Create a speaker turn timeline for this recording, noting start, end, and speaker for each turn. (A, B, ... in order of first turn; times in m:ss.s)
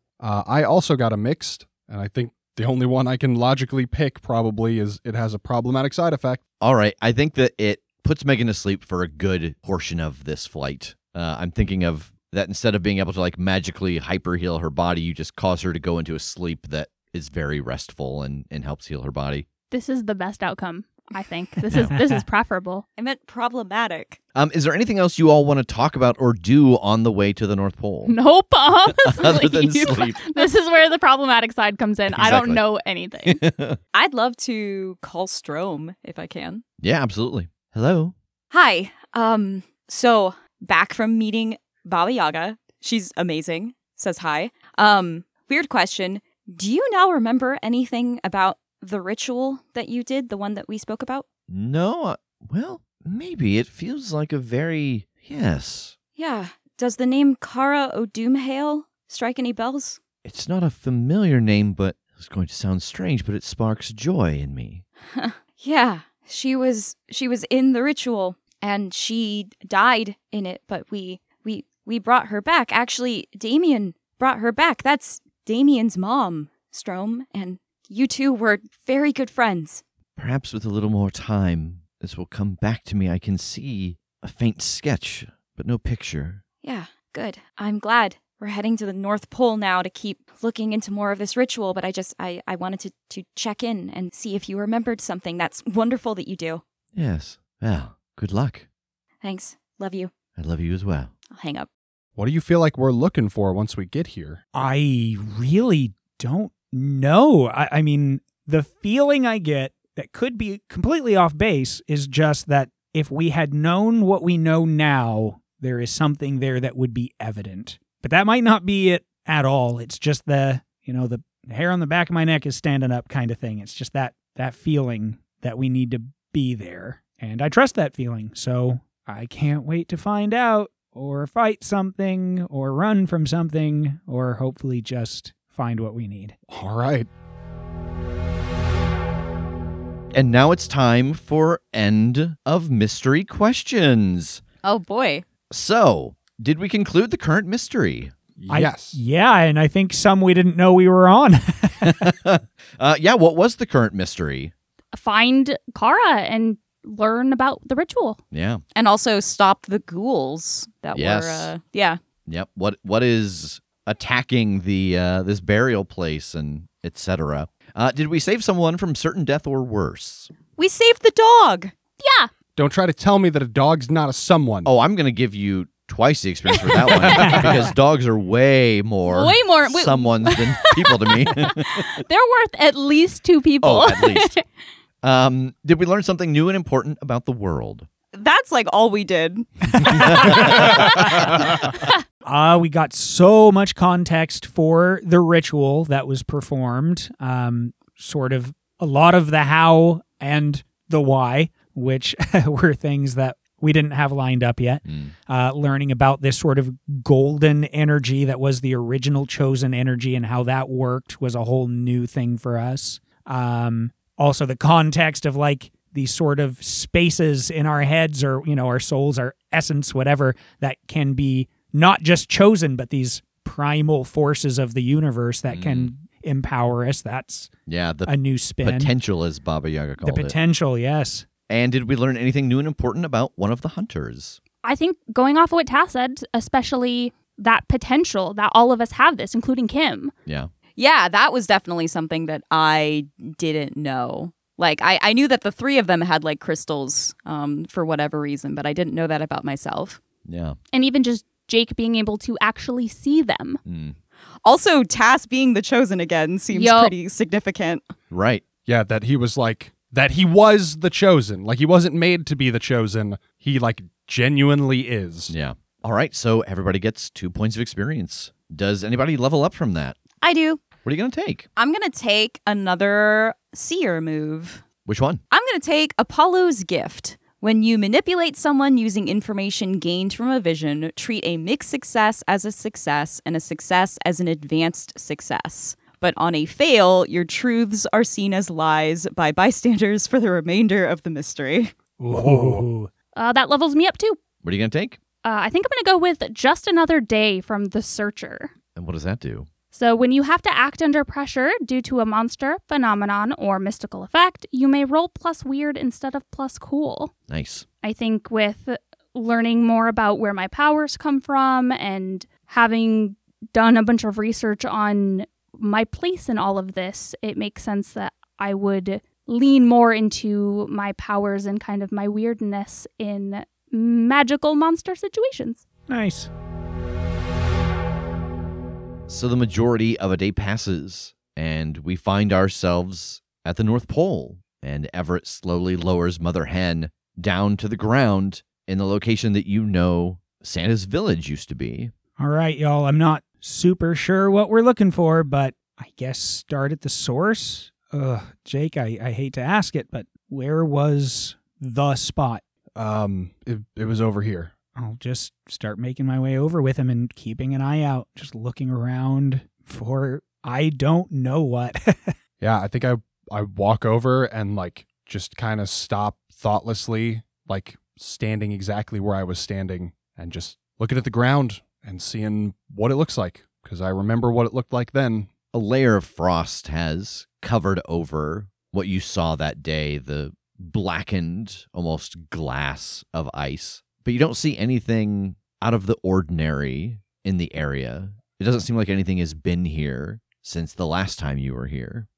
0:00.2-0:06.4 A
0:06.6-0:19.5 B
0:19.7-0:22.8 C
0:21.8-0:22.2 D
0:23.0-0:24.2 E
0:24.4-0:28.2 B
0:28.1-0:33.4 C
0:29.0-0:30.4 B
0:32.1-0:32.6 B
0:33.2-0:33.8 B
0:33.9-0:36.6 E
0:36.8-0:38.1 B
0:38.5-0:51.2 E
0:51.5-0:56.0 B
0:56.2-1:00.0 E
1:00.2-1:04.8 B
1:05.1-1:19.8 E
1:20.2-1:26.4 B
1:26.6-1:36.6 E
1:36.9-1:38.6 B
1:39.2-1:40.1 E
1:40.4-1:41.1 B
1:41.3-1:41.7 E
1:42.2-1:44.4 A
1:44.5-2:16.4 D
2:16.5-2:17.1 A
2:20.1-2:24.4 B
2:24.6-2:25.2 E
2:25.5-2:28.1 B
2:28.4-2:29.0 A
2:28.5-2:32.0 D
2:31.8-2:34.5 B
2:34.9-2:38.2 C
2:38.3-2:38.6 B
2:38.8-2:42.0 E
2:40.9-2:41.5 B
2:42.2-2:50.3 B
2:50.6-2:51.7 E
2:52.0-2:52.3 C
2:52.6-2:54.7 A
2:54.6-3:01.9 B
2:57.0-2:57.7 A
2:57.2-2:57.4 D
2:59.1-3:04.4 C
3:03.6-3:04.4 B
3:05.0-3:07.9 B
3:08.1-3:09.5 E
3:09.8-3:11.0 D
3:10.0-3:11.0 B
3:12.2-3:47.5 D
3:24.8-3:25.1 B
3:45.5-3:45.9 B
3:47.7-3:50.4 B
3:48.1-3:48.9 D
3:50.0-3:51.2 D
3:51.5-3:54.4 B
3:54.6-4:00.1 C
4:00.8-4:10.0 E
4:10.2-4:10.6 B
4:10.7-4:13.6 C
4:13.6-4:14.0 B
4:14.4-4:17.9 E
4:16.5-4:16.9 C
4:18.1-4:18.4 B
4:18.6-4:25.3 A
4:25.3-4:30.0 B
4:30.2-4:30.6 E
4:30.8-4:31.5 B
4:31.6-4:34.6 E
4:34.9-4:35.2 B
4:35.3-4:51.8 E
4:52.0-4:52.7 A
4:52.1-4:52.9 D
4:53.2-4:54.2 C
4:54.4-4:55.0 B
4:55.2-4:58.5 C
4:58.7-4:59.5 B
4:59.7-5:07.1 C
5:07.3-5:07.7 B
5:07.8-5:25.6 C
5:25.9-5:26.3 D
5:29.1-5:41.9 B
5:42.2-5:52.4 D
5:52.8-5:54.5 A
5:54.7-6:02.1 D
6:02.4-6:15.3 A
6:15.5-6:32.1 B